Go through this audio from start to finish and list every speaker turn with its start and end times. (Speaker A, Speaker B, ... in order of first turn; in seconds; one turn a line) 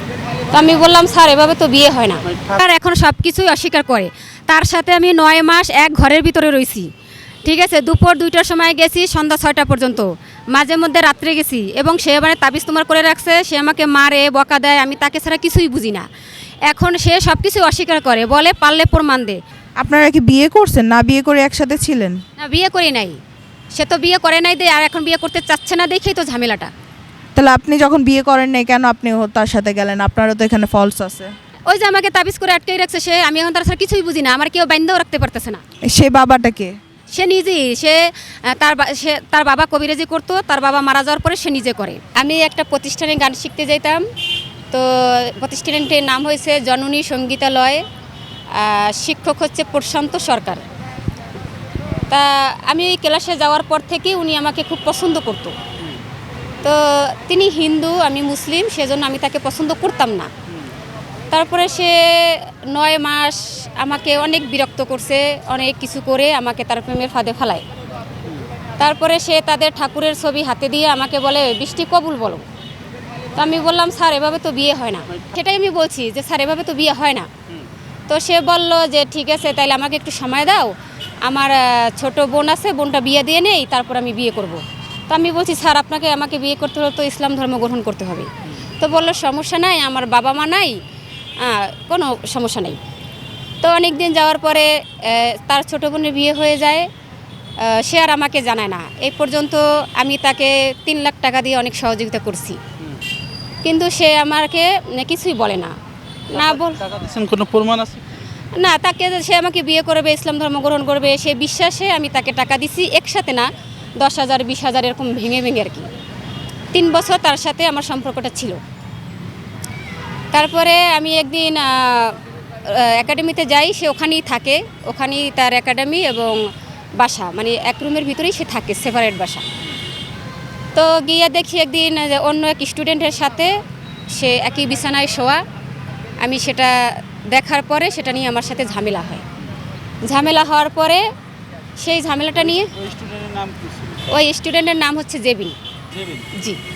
Speaker A: 0.5-6.9
Speaker A: 7.5-16.1
Speaker A: 16.7-19.4
Speaker B: 19.8-22.2
Speaker A: 22.4-23.2
Speaker A: 23.7-26.7
Speaker B: 27.4-31.3
Speaker A: 31.7-35.6
Speaker B: 35.9-36.8
Speaker A: 37.1-44.1
Speaker A: 44.7-47.9
Speaker A: 48.5-50.6
Speaker A: 52.1-55.6
Speaker A: 56.6-60.3
Speaker A: 61.3-67.7
Speaker A: 68.8-72.5
Speaker A: 73.3-77.3
Speaker A: 78.1-90.8
Speaker A: 91.4-92.8
Speaker A: 93.6-96.9
Speaker A: 97.6-102.6
Speaker A: 103.6-105.7
Speaker A: 106.3-106.8
Speaker C: 106.4-108.0
Speaker A: 108.5-115.9
Speaker A: 116.7-118.6
Speaker A: 120.3-129.4
Speaker A: 130.7-133.6
Speaker A: 134.1-135.4
Speaker A: 136.2-139.2
Speaker A: 140.0-141.1
Speaker A: 141.8-142.7
Speaker C: 142.7-144.0
Speaker A: 144.1-145.6
Speaker C: 145.9-146.3
Speaker A: 146.3-146.6